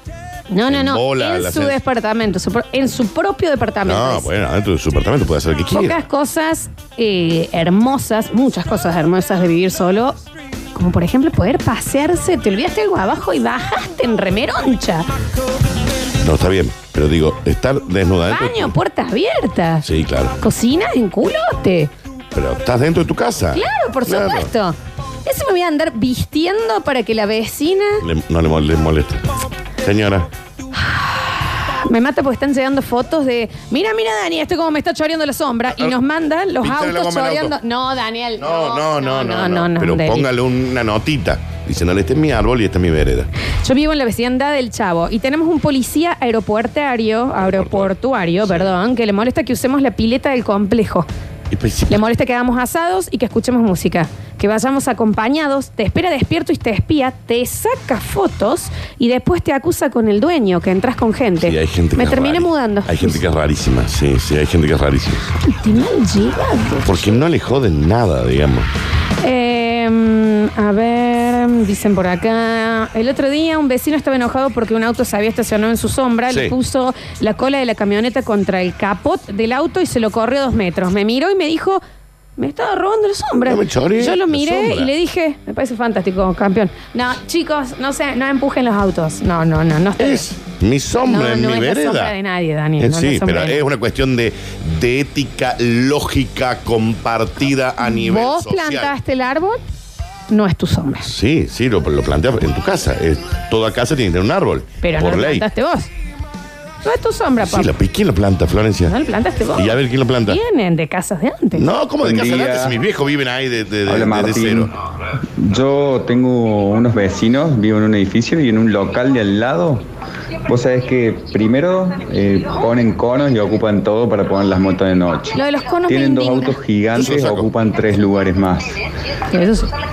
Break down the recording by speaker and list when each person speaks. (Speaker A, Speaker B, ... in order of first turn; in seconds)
Speaker A: 0.5-4.3, 5.7-10.2, 10.7-15.1, 18.3-19.8, 20.4-21.9, 23.5-28.0, 30.8-40.3, 43.6-51.1, 51.9-63.2, 65.5-67.2, 69.2-81.8, 82.4-90.3, 91.0-93.6, 97.8-99.6, 100.3-101.1, 104.8-105.9, 106.8-107.7, 108.9-111.7, 125.3-126.6, 129.3-129.7
Speaker B: 0.7-1.8, 3.8-6.0, 16.2-18.7, 19.8-20.4, 22.3-24.5, 28.0-29.3, 29.8-30.3, 36.6-37.5, 38.4-43.3, 47.4-48.7, 51.5-52.0, 61.4-65.2, 66.8-68.7, 76.3-76.5, 83.4-84.9, 90.0-92.1, 92.8-98.9, 101.0-105.5, 107.4-108.9, 109.5-110.4, 111.5-114.7, 126.9-127.5
Speaker C: 112.0-112.8, 113.8-114.7, 115.4-119.8, 120.5-128.8